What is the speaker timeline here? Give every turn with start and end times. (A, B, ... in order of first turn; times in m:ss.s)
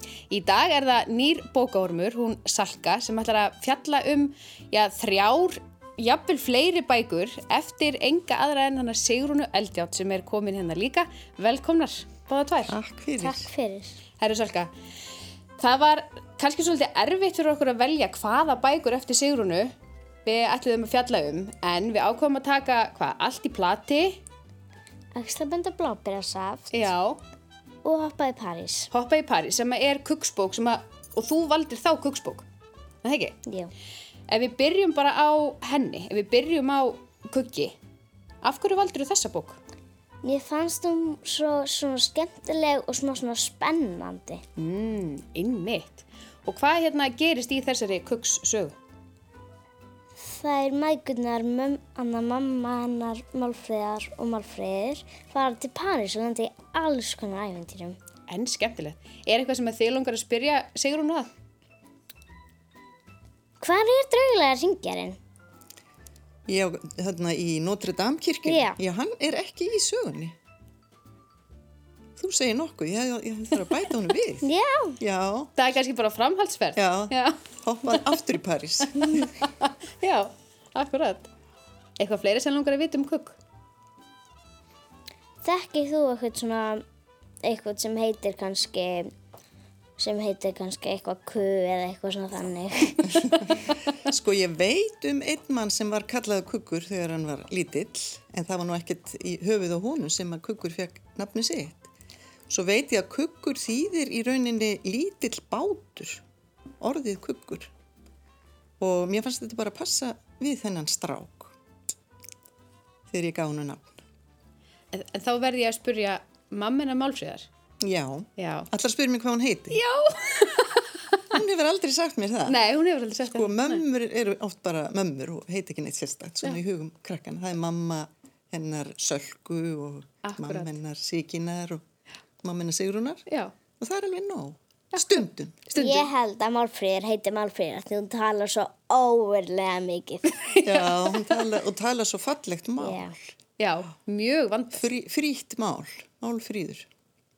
0:00.3-0:12.8 A
0:12.7-0:13.5 B
0:13.2-0:14.0 C
0:14.2-0:14.7 A
0:15.6-0:19.7 A
0:20.2-0:24.2 A
0:25.2-0:26.9 C
0:26.7-0:27.2 A
0:27.8-0:28.9 C
0:28.9-0:32.5 A
0:33.0-0:33.3 A
0:33.5-0:33.7 C
0:34.3-0:37.7 A
0:38.4-0:39.6 A
0:40.2-0:44.4 C
0:44.6-0:48.8 A
0:50.2-0:58.0 C
0:58.3-1:01.3 A
1:03.6-1:05.2 C
1:06.5-1:10.3 B
1:08.4-1:08.8 C
1:12.2-1:14.5 B
1:14.4-1:15.0 C
1:15.0-1:15.5 B
1:15.6-1:18.2 A
1:16.8-1:19.1 B
1:18.9-1:21.3 A
1:22.0-1:23.4 A
1:25.4-1:26.8 C
1:27.4-1:29.1 C
1:30.0-1:33.2 C
1:34.0-1:41.9 B
1:42.5-1:46.2 B
1:46.8-1:47.7 B
1:48.8-1:51.5 B
1:53.1-1:54.0 B
1:54.9-1:57.5 A
1:57.8-1:59.8 B
1:58.4-1:58.7 A
1:59.7-2:01.4 A
2:01.3-2:02.6 B
2:02.4-2:03.8 A
2:03.2-2:11.8 B
2:10.2-2:10.7 A
2:12.4-2:13.3 B
2:13.3-2:13.5 A
2:13.8-2:15.8 B
2:15.7-2:16.1 A
2:15.8-2:20.4 C
2:20.3-2:21.4 A
2:20.6-2:23.3 B
2:22.8-2:23.1 C
2:23.6-2:24.9 A
2:24.7-2:26.9 B